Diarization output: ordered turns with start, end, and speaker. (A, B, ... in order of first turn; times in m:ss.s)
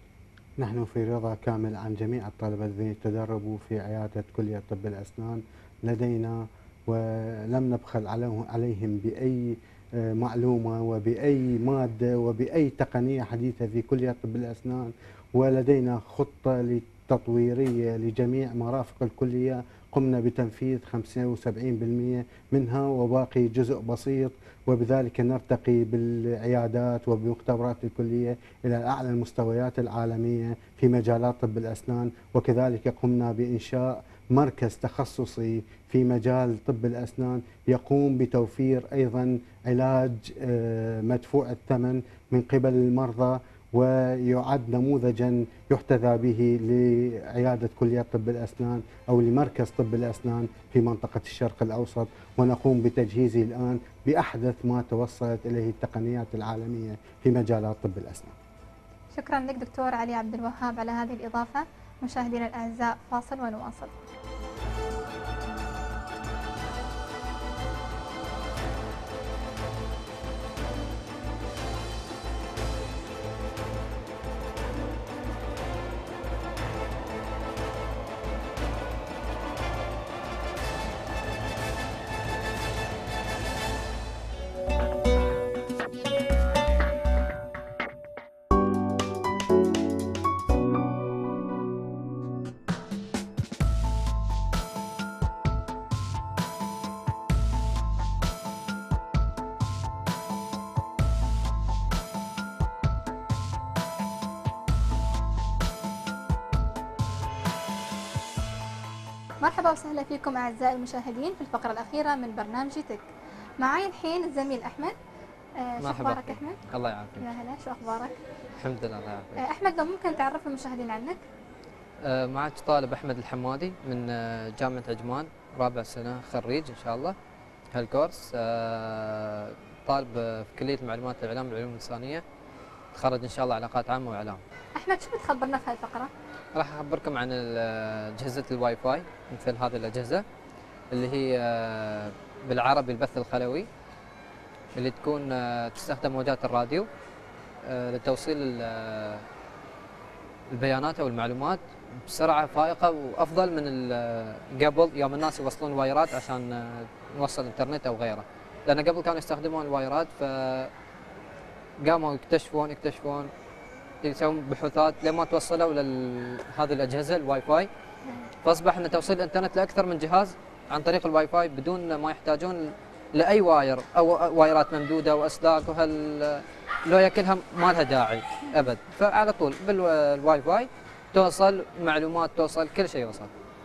0:00.6-0:58.4 A
0:59.1-1:04.0 B
1:49.4-1:53.1 B
1:53.6-1:55.0 B
1:55.6-1:56.6 B
1:55.8-1:57.2 C
1:57.2-1:58.2 B
1:58.6-1:59.4 C
1:59.4-2:01.2 B
2:02.0-2:07.1 C
2:07.7-2:12.2 C
2:12.9-2:14.4 C
2:14.8-2:16.1 B
2:16.6-2:20.2 C
2:20.9-2:23.7 C
2:24.8-2:26.9 C
2:27.6-2:29.2 C
2:30.5-2:40.7 C
2:41.8-2:43.3 C
2:44.0-2:47.7 C
2:48.4-3:03.3 C